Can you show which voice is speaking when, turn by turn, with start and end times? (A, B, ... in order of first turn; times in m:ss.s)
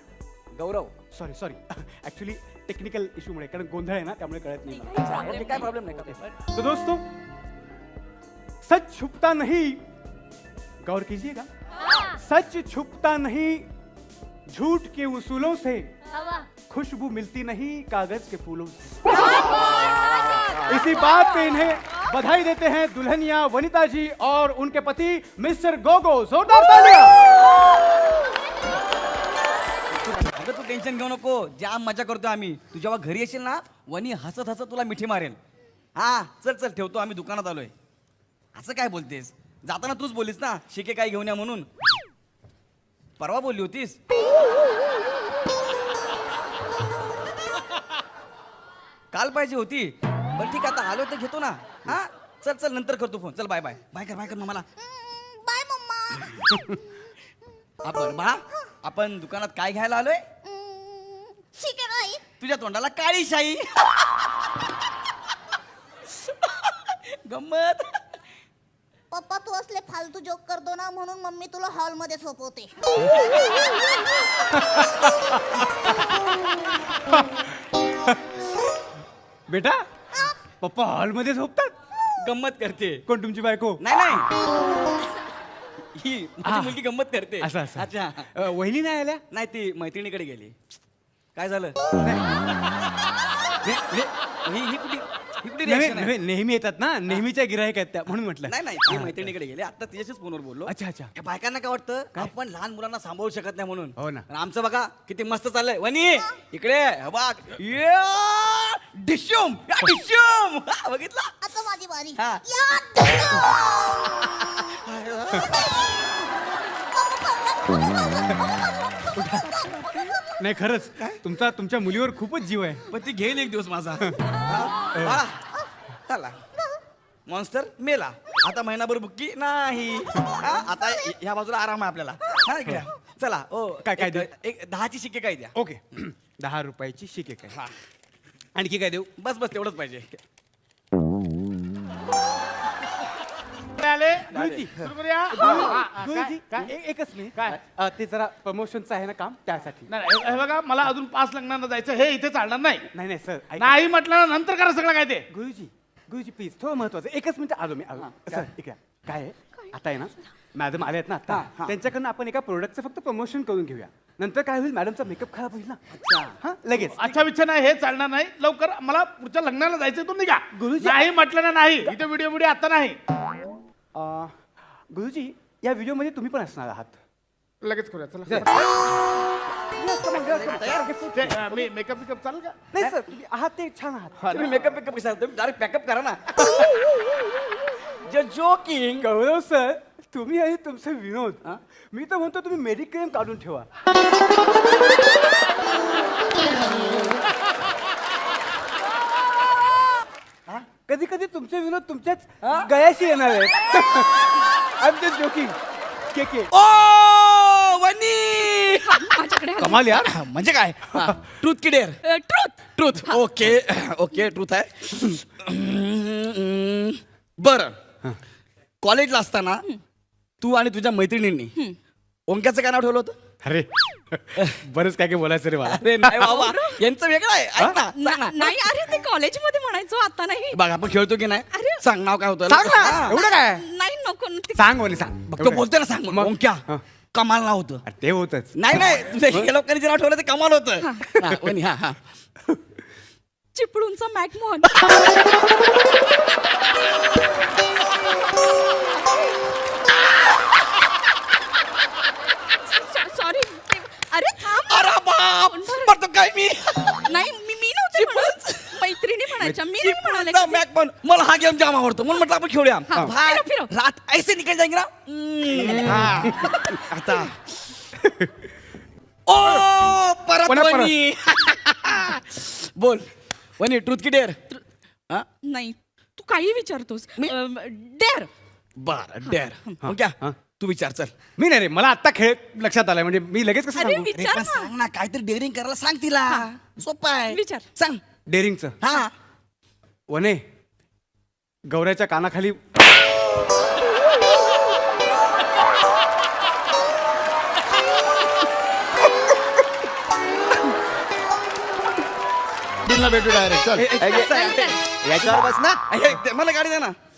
0:00.5-0:00.9 A
0:01.1-0:07.0 B
0:04.9-0:06.3 A
0:05.3-0:05.7 C
0:08.6-0:09.8 B
0:10.8-0:11.5 B
0:12.1-0:13.6 B
0:14.5-0:15.9 B
0:16.7-0:19.3 B
0:19.3-0:20.1 A
0:20.6-0:27.2 B
0:29.9-0:35.4 A
0:36.0-0:37.7 A
0:38.5-0:41.7 A
0:43.2-0:44.0 A
0:49.1-0:54.7 A
0:54.8-0:56.5 D
0:57.8-1:00.2 A
1:00.4-1:02.2 D
1:02.4-1:04.0 A
1:06.1-1:08.0 A
1:09.1-1:12.7 D
1:14.6-1:15.7 B
1:19.5-1:19.8 B
1:20.6-1:21.7 B
1:22.2-1:23.0 A
1:23.0-1:23.8 B
1:23.8-1:24.3 A
1:25.9-1:28.3 A
1:26.4-1:26.8 B
1:27.4-1:29.2 B
1:29.3-1:30.5 A
1:31.3-1:31.8 A
1:32.0-1:32.5 B
1:33.6-1:34.1 B
1:34.4-1:36.1 A
1:35.6-1:39.3 B
1:38.5-1:51.4 A
1:40.7-1:41.1 B
1:44.0-1:44.2 B
1:51.4-1:54.4 D
1:52.1-1:52.4 A
1:53.8-1:55.5 A
1:56.9-1:58.4 D
1:59.2-2:02.8 B
2:02.9-2:05.4 A
2:04.9-2:05.2 B
2:06.1-2:06.4 A
2:07.3-2:15.5 A
2:13.8-2:14.3 B
2:15.5-2:17.6 B
2:18.5-2:19.1 B
2:19.2-2:20.2 A
2:23.8-2:24.1 E
2:24.2-2:25.8 A
2:24.3-2:29.9 B
2:24.8-2:26.0 E
2:30.0-2:32.8 E
2:32.9-2:33.9 B
2:33.7-2:35.2 E
2:35.3-2:45.8 B
2:38.0-2:38.4 A
2:41.3-2:41.7 A
2:45.9-2:46.4 A
2:46.4-2:47.3 B
2:47.0-2:53.0 E
2:50.5-2:51.1 B
2:53.9-2:54.3 B
2:54.9-2:56.9 B
2:57.6-2:58.5 E
2:59.6-3:01.7 B
3:00.0-3:00.9 A
3:01.2-3:02.6 E
3:02.7-3:04.4 B
3:04.2-3:06.3 A
3:08.0-3:09.1 A
3:09.0-3:11.4 B
3:11.9-3:13.7 B
3:20.8-3:24.2 B
3:22.4-3:22.7 A
3:24.8-3:25.6 B
3:26.1-3:26.5 B
3:26.5-3:29.0 A
3:28.7-3:29.9 C
3:29.6-3:30.1 B
3:30.0-3:32.0 A
3:32.0-3:33.2 C
3:32.8-3:37.7 A
3:38.8-3:39.6 A
3:40.4-3:41.5 A
3:42.3-3:43.1 A
3:43.4-3:46.3 B
3:45.7-3:48.7 A
3:46.2-3:46.8 C
3:47.9-3:50.6 C
3:50.5-3:53.2 A
3:51.5-3:51.8 C
3:52.5-3:53.6 B
3:52.6-3:54.8 C
3:54.5-3:56.8 B
3:55.3-3:56.6 A
3:57.1-3:57.8 A
3:57.8-3:58.6 B
3:58.6-4:02.0 A
4:00.8-4:01.1 C
4:03.5-4:04.7 C
4:12.6-4:16.0 C
4:14.7-4:17.1 A
4:17.0-4:20.6 C
4:17.9-4:18.8 A
4:19.8-4:27.4 A
4:22.9-4:23.7 C
4:25.6-4:26.5 B
4:29.3-4:33.0 A
4:30.4-4:30.9 B
4:33.6-4:34.4 A
4:35.4-4:38.3 C
4:38.8-4:41.1 A
4:39.2-4:39.8 C
4:39.8-4:40.4 B
4:41.4-4:44.4 B
4:43.7-4:44.7 C
4:44.3-4:48.0 A
4:47.3-4:47.6 C
4:48.3-4:48.7 B
4:48.8-4:49.1 A
4:50.1-4:50.4 B
4:51.7-4:52.6 B
5:02.9-5:03.7 E
5:03.8-5:04.8 A
5:03.8-5:05.8 F
5:05.9-5:07.0 A